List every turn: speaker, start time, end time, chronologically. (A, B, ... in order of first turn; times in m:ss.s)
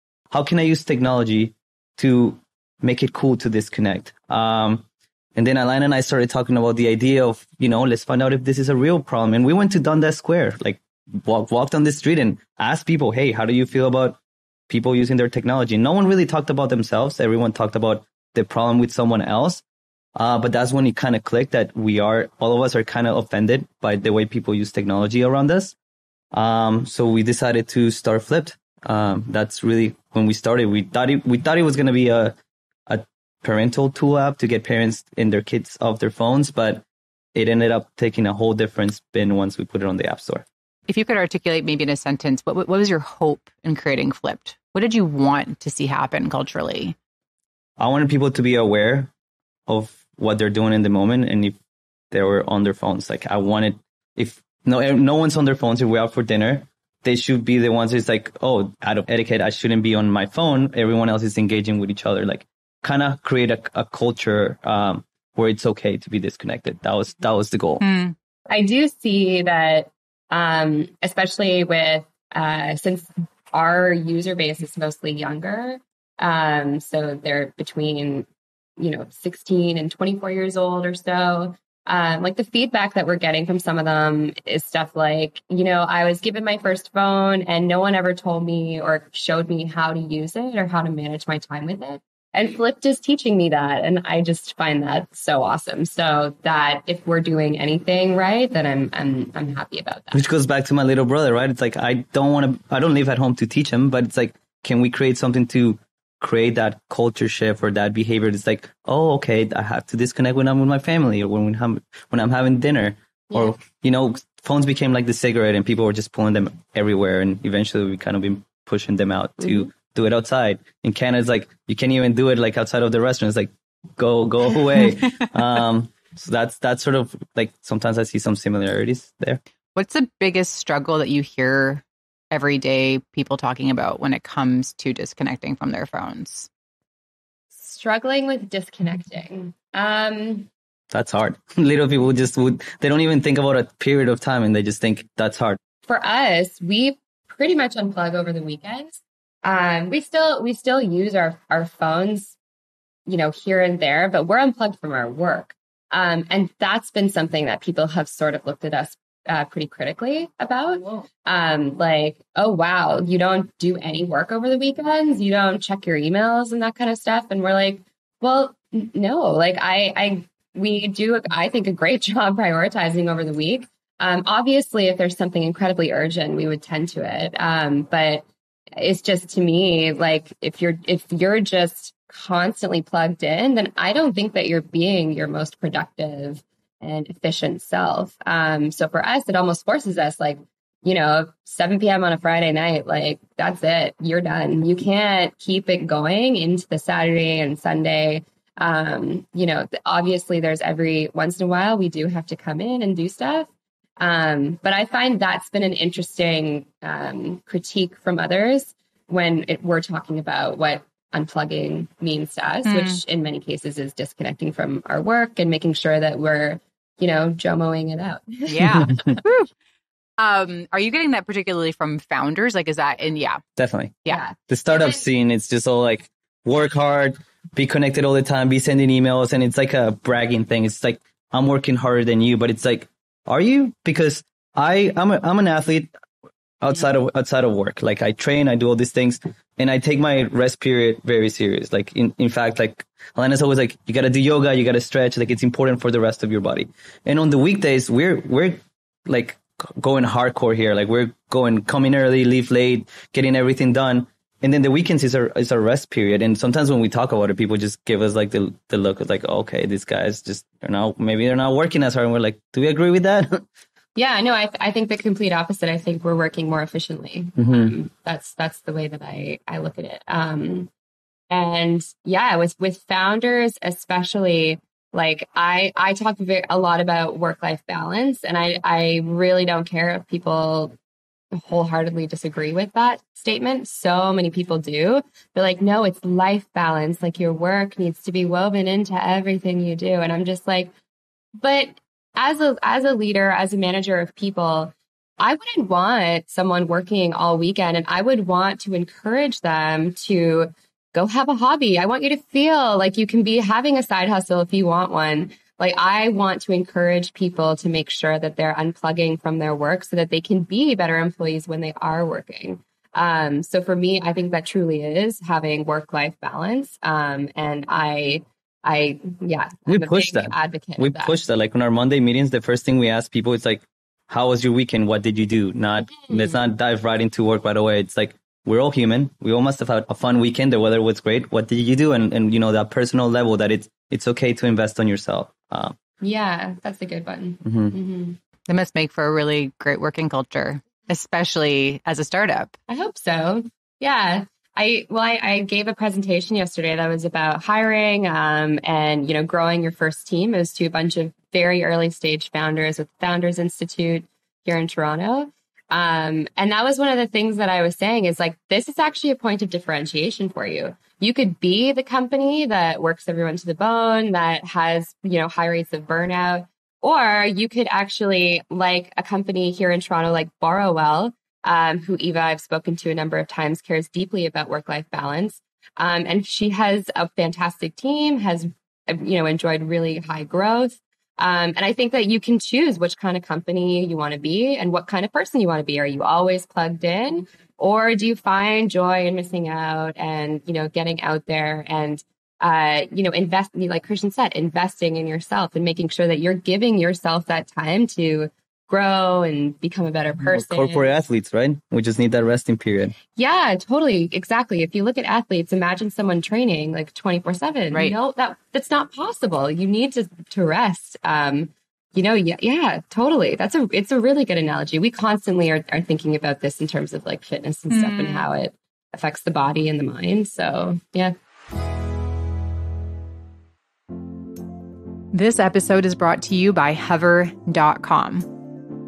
0:00.3-0:19.6 A
0:20.2-0:25.8 A
0:26.3-0:32.4 A
0:32.9-0:40.4 A
0:40.9-0:47.0 B
0:47.8-0:49.1 A
0:49.7-0:51.6 A
0:52.1-1:07.8 A
1:07.8-1:08.1 B
1:08.5-1:18.3 C
1:18.8-1:40.2 C
1:40.1-2:09.4 A
1:53.3-1:53.6 C
1:59.4-1:59.7 C
2:09.7-2:16.5 B
2:17.5-2:20.5 C
2:20.9-2:25.6 A
2:25.9-2:32.4 C
2:33.1-2:58.2 C
2:58.8-3:23.5 C
3:24.0-3:39.1 C
3:32.6-3:33.0 B
3:38.5-3:39.5 B
3:40.2-3:43.4 B
3:43.6-3:55.9 A
3:44.1-3:45.0 C
3:56.6-4:23.4 A
4:24.0-4:30.7 C
4:27.4-4:27.7 A
4:31.3-4:40.8 C
4:41.3-4:50.7 C
4:51.4-5:21.2 C
5:19.7-5:35.8 A
5:25.9-5:26.4 C
5:36.0-5:38.2 C
5:37.4-5:37.7 A
5:38.5-5:42.5 B
5:42.7-6:40.9 C
6:40.2-6:43.0 A
6:43.2-7:01.1 C
6:57.7-6:58.2 B
7:05.1-7:08.3 B